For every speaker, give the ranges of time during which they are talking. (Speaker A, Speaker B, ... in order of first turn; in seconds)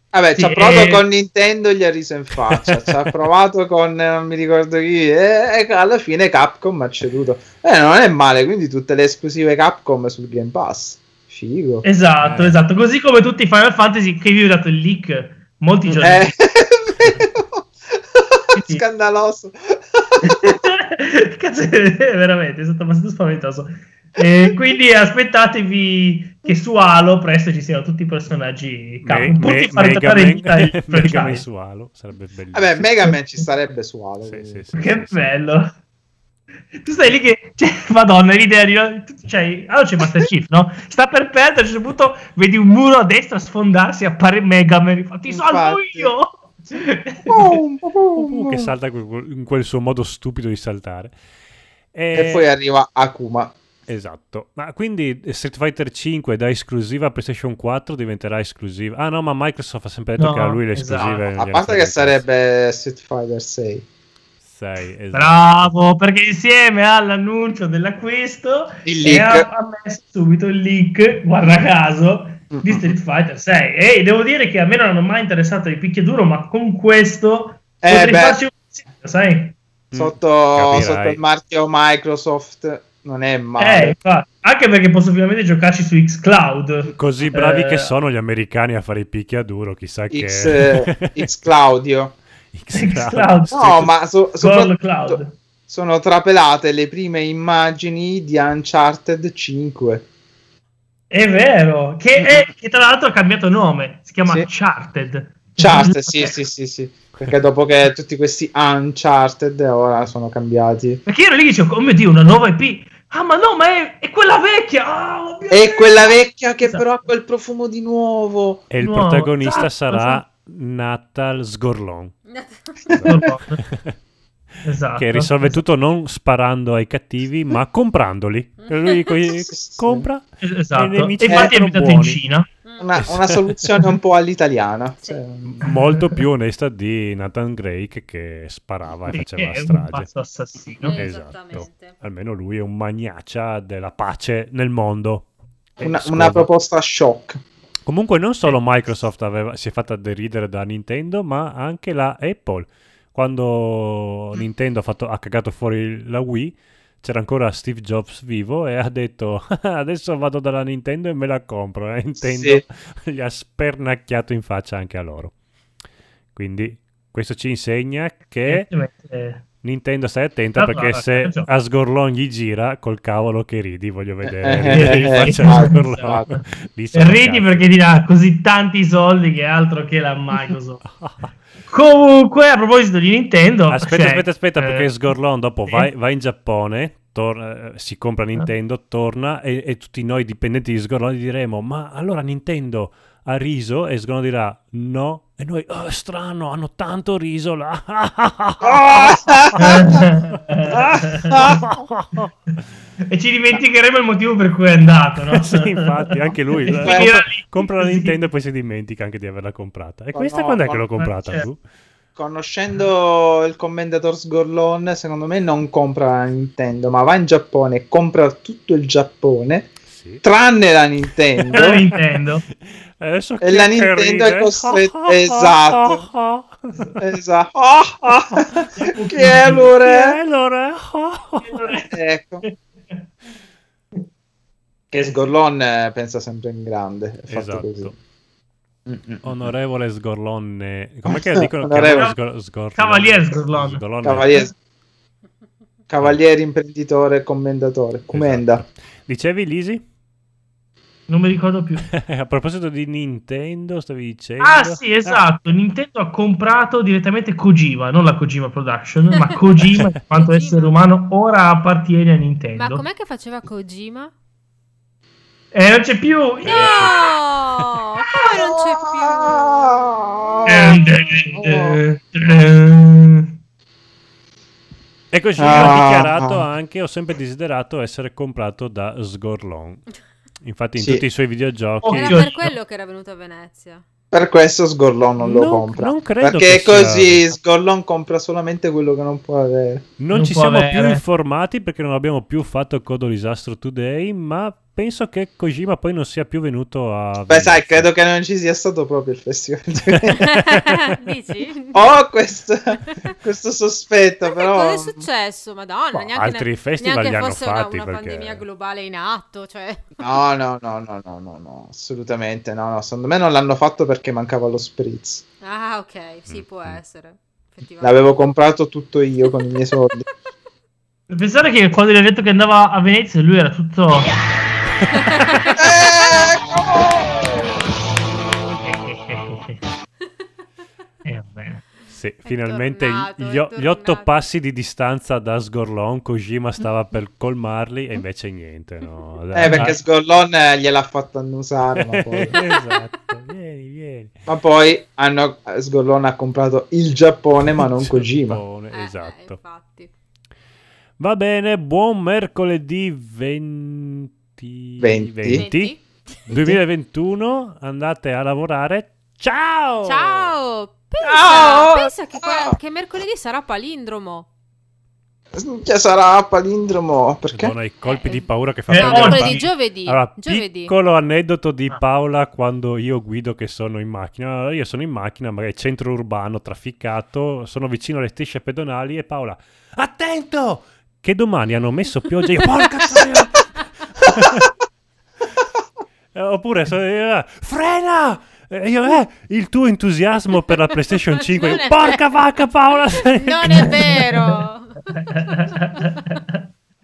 Speaker A: 0.1-11.8, 15.9-20.5, 32.5-34.7, 45.3-46.1, 47.3-48.7, 52.1-53.5, 61.0-63.9, 68.9-69.5, 72.5-72.9, 77.8-78.4, 79.9-84.0, 90.1-92.2, 93.5-100.1, 102.2-102.4, 105.6-111.0, 115.5-118.6, 129.5-130.1, 131.3-131.5, 132.8-135.5, 145.8-147.4, 162.2-162.6, 174.4-176.3, 198.6-199.7, 200.7-201.6, 206.8-207.2, 210.1-210.9, 212.2-221.8, 223.4-226.1, 227.0-230.2, 231.9-232.4, 234.9-237.9, 238.9-239.4, 241.1-242.1, 244.0-244.5, 245.9-248.6, 268.4-270.8, 271.4-271.8, 275.4-276.4, 280.8-281.0, 284.1-289.9, 297.3-300.3, 301.7-305.1, 310.0-315.2, 317.8-320.1, 325.6-327.2, 339.3-342.4, 344.3-348.4, 354.8-355.4, 361.0-362.6, 365.3-367.6
Speaker B: 0.3-1.0, 11.8-16.3, 18.5-18.8, 20.2-31.4, 34.7-35.7, 36.8-47.6, 60.2-61.2, 65.1-79.6, 83.6-87.9, 92.7-93.8, 94.4-95.4, 101.1-106.3, 111.1-117.0, 118.8-120.2, 123.1-123.6, 124.6-125.6, 130.4-132.5, 139.1-141.1, 168.4-169.4, 170.6-171.5, 174.7-176.4, 176.9-180.8, 181.7-184.9, 199.6-201.4, 203.1-205.8, 206.6-208.3, 211.0-211.5, 221.5-222.4, 228.8-229.7, 231.4-231.9, 232.4-233.0, 234.9-235.3, 241.9-242.1, 242.8-243.8, 251.1-251.8, 254.4-262.8, 265.5-266.8, 270.5-273.3, 281.8-282.5, 290.1-291.0, 321.1-324.1, 328.6-329.6, 331.1-331.6, 339.5-339.7, 368.7-369.5, 393.4-394.2, 395.1-396.4
Speaker C: 2.5-2.9, 12.2-12.6, 29.0-32.9, 34.2-35.3, 48.2-51.1, 51.9-52.5, 53.9-62.2, 64.4-65.7, 79.9-81.2, 86.9-91.2, 92.5-93.9, 118.7-122.1, 122.9-123.9, 125.0-132.2, 133.0-133.4, 135.4-140.1, 140.9-145.2, 145.8-146.5, 147.9-165.3, 166.3-168.7, 169.6-177.7, 180.9-181.3, 183.7-199.8, 201.4-202.3, 205.2-211.6, 219.9-220.2, 221.4-222.0, 222.7-226.9, 229.8-231.8, 237.3-238.0, 239.2-244.5, 248.1-249.8, 251.8-255.2, 266.4-267.7, 275.1-279.9, 280.4-282.4, 285.2-287.3, 290.0-297.9, 305.9-308.4, 316.3-316.8, 331.9-339.8, 342.1-344.1, 347.6-349.4, 351.0-355.7, 356.3-360.3, 367.3-384.5, 386.1-393.7
Speaker D: 122.3-123.0, 128.6-129.4, 132.6-133.1, 140.8-142.0, 260.1-260.7, 262.6-264.1, 266.4-269.7, 270.6-271.0, 281.9-283.8, 300.1-301.9, 304.3-309.9, 315.4-318.2, 324.9-326.3, 332.3-334.2, 348.7-349.9, 355.3-355.8, 359.8-364.3, 367.9-370.7, 391.3-392.2, 393.0-396.0